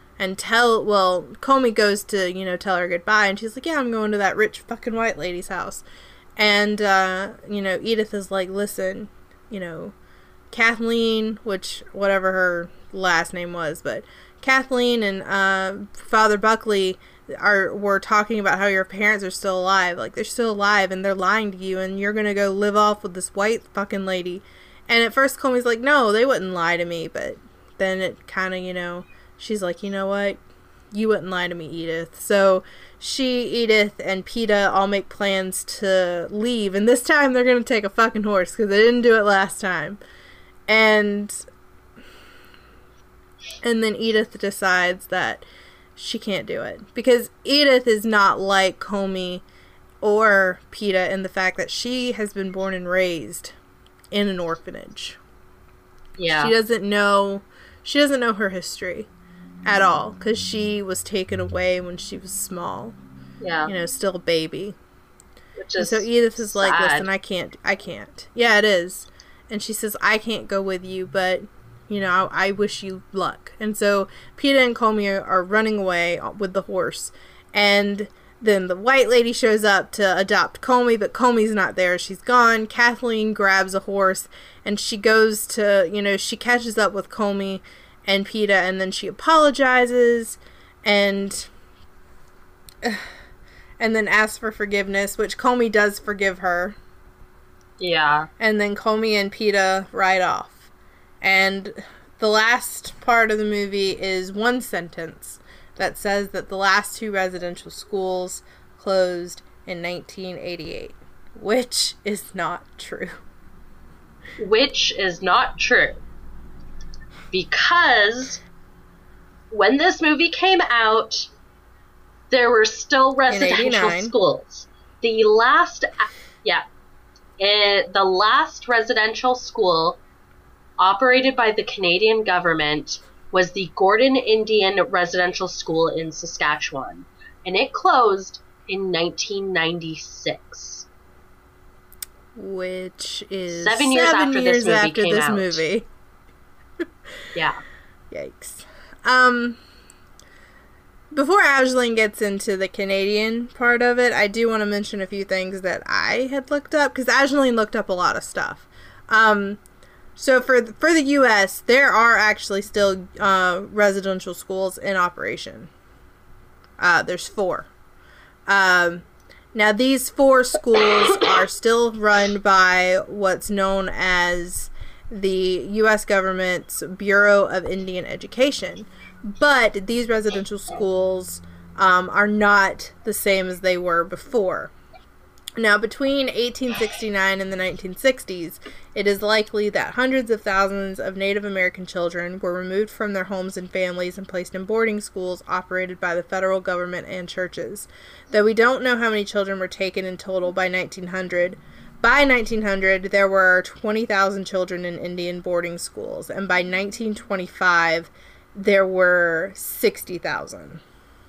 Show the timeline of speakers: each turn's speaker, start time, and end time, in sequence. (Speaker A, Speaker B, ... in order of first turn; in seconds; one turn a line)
Speaker A: 0.2-5.8
Speaker A: 6.4-9.9
Speaker A: 10.5-30.4
Speaker A: 30.9-40.0
Speaker A: 40.7-41.4
Speaker A: 43.6-45.4
Speaker A: 46.0-49.4
Speaker A: 50.0-53.5
Speaker A: 54.1-55.2
Speaker B: 56.2-56.5
Speaker A: 56.3-59.1
Speaker A: 59.7-63.0
Speaker B: 63.4-63.7
Speaker A: 63.7-64.8
Speaker B: 65.6-67.1
Speaker A: 65.8-91.5
Speaker A: 92.8-93.1
Speaker A: 93.8-96.8
Speaker B: 97.8-98.3
Speaker A: 98.4-100.7
Speaker A: 101.2-113.2
Speaker B: 114.4-116.0
Speaker B: 117.3-118.4
Speaker B: 119.5-121.2
Speaker B: 122.3-126.6
Speaker A: 123.3-124.1
Speaker B: 127.4-130.0
Speaker B: 130.8-140.9
Speaker A: 142.3-145.9
Speaker B: 143.5-145.6
Speaker B: 147.3-147.6
Speaker A: 148.1-149.6
Speaker A: 151.1-159.6
Speaker A: 160.2-165.7
Speaker A: 166.8-167.7
Speaker A: 168.5-184.7
Speaker A: 185.6-210.8